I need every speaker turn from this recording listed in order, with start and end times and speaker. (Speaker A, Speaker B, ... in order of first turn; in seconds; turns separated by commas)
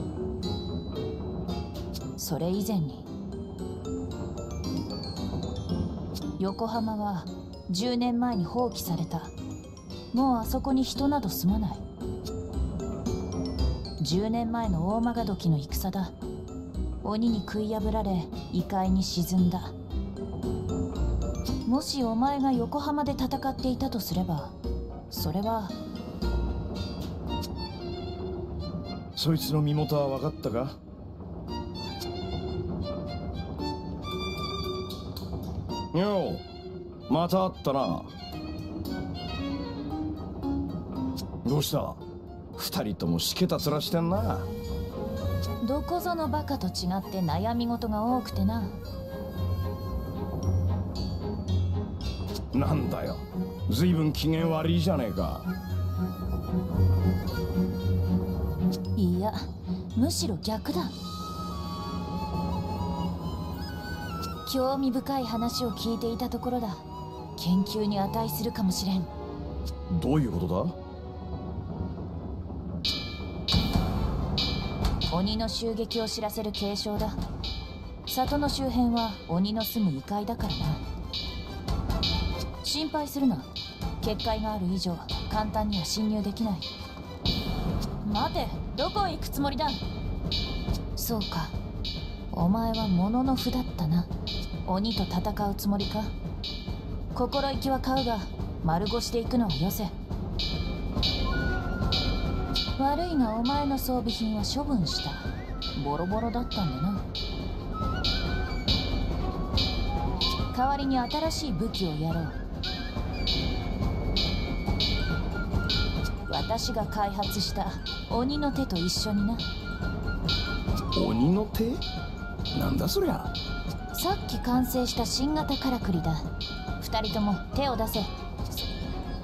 Speaker A: 2.2-3.1, Speaker A: 6.4-9.3, Speaker A: 10.1-11.8, Speaker A: 14.0-16.1, Speaker A: 17.0-19.8, Speaker A: 21.6-24.6, Speaker A: 25.1-25.8, Speaker B: 29.1-30.8, Speaker B: 35.9-36.4, Speaker B: 37.1-38.1, Speaker B: 41.4-42.0, Speaker B: 42.6-44.5, Speaker A: 45.6-48.8, Speaker B: 52.5-55.5, Speaker A: 59.0-60.9, Speaker A: 64.5-66.8, Speaker A: 67.4-69.1, Speaker B: 69.9-70.8, Speaker A: 75.1-77.2, Speaker A: 78.1-80.8, Speaker A: 82.6-83.5, Speaker A: 84.0-86.7, Speaker A: 88.0-89.8, Speaker A: 91.0-91.6, Speaker A: 92.3-94.1, Speaker A: 94.7-96.1, Speaker A: 97.1-100.0, Speaker A: 102.8-107.1, Speaker A: 110.5-112.4, Speaker A: 116.3-119.5, Speaker B: 120.9-121.8, Speaker B: 122.5-123.3, Speaker A: 123.9-128.1